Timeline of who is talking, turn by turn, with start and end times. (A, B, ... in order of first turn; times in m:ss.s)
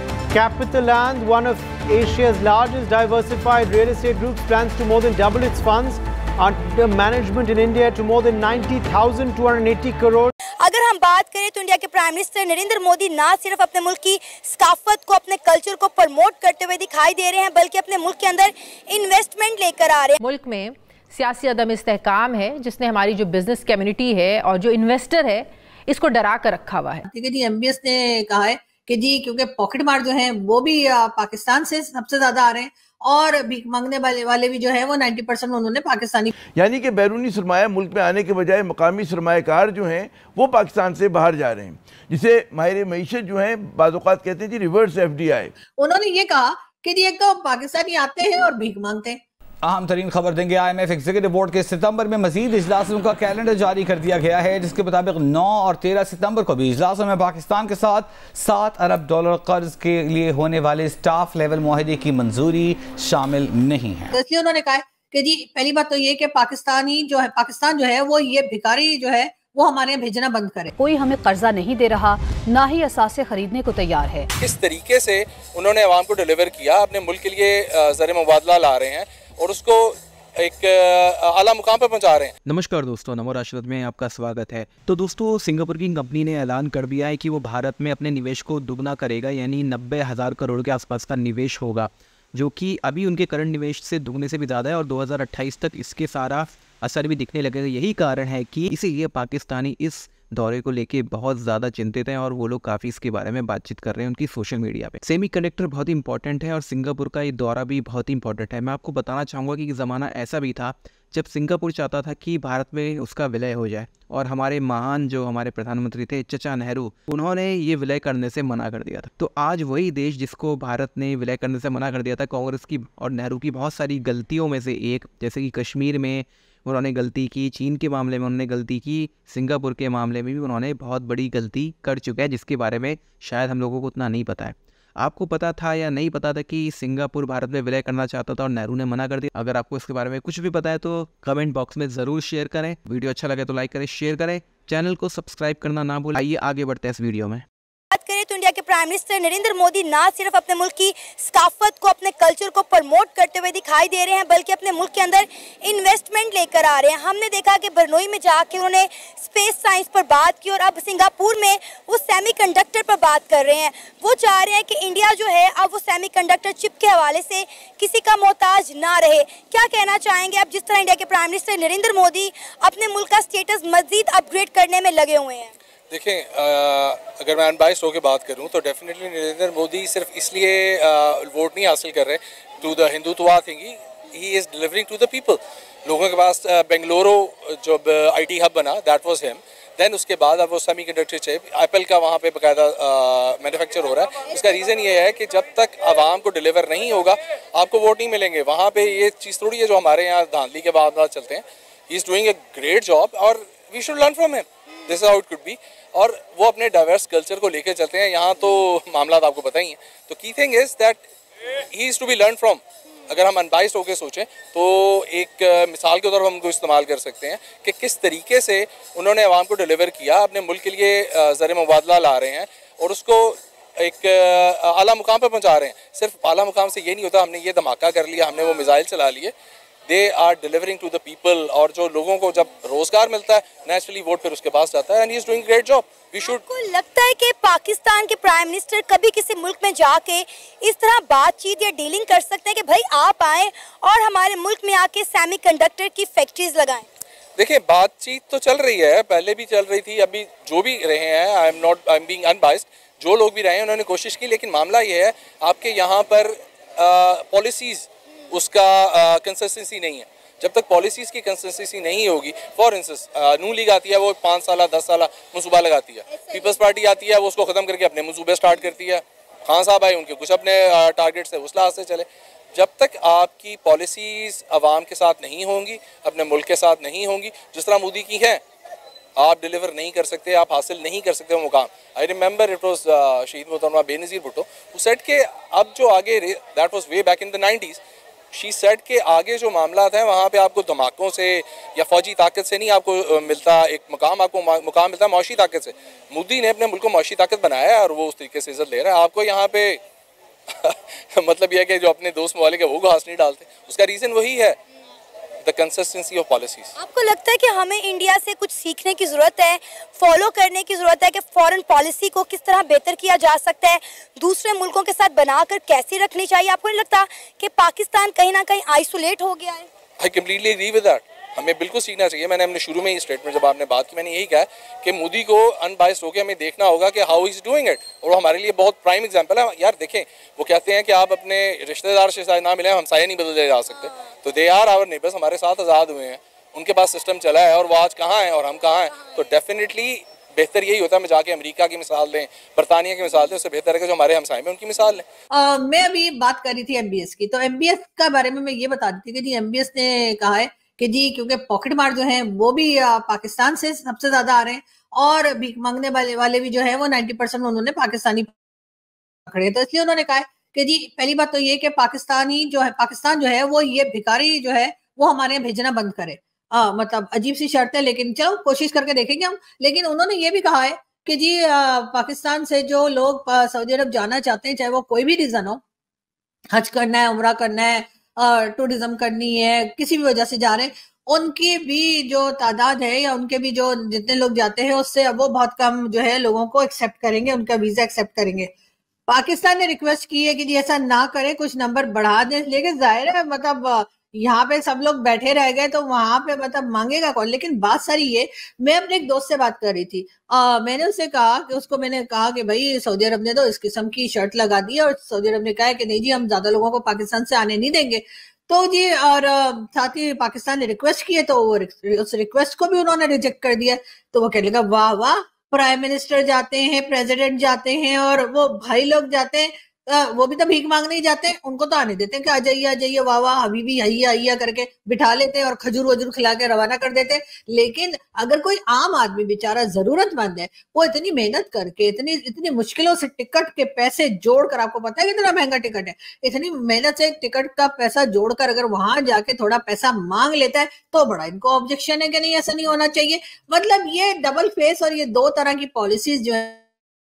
0:00.3-0:10.3 A
0:10.6-0:20.2 B
0:20.2-0:27.0 C
0:27.1-0:36.3 D
0:36.6-0:45.5 E
0:45.8-0:49.2 D
0:49.6-1:04.2 F
1:04.1-1:10.7 D
1:10.8-1:14.3 G
1:14.4-1:22.3 H
1:22.4-2:27.5 I
2:27.9-2:55.5 B
2:55.9-3:31.0 H
3:31.7-3:49.3 H
3:49.9-3:56.4 H
3:56.2-4:06.8 B
4:07.4-4:38.4 H
4:39.2-4:47.8 H
4:48.3-4:59.8 H
5:00.5-5:04.6 H
5:05.4-5:06.7 H
5:06.8-5:19.7 B
5:20.0-5:45.0 H
5:45.3-5:58.3 D
5:59.3-6:15.6 D
6:16.5-6:28.5 D
6:29.1-7:26.6 D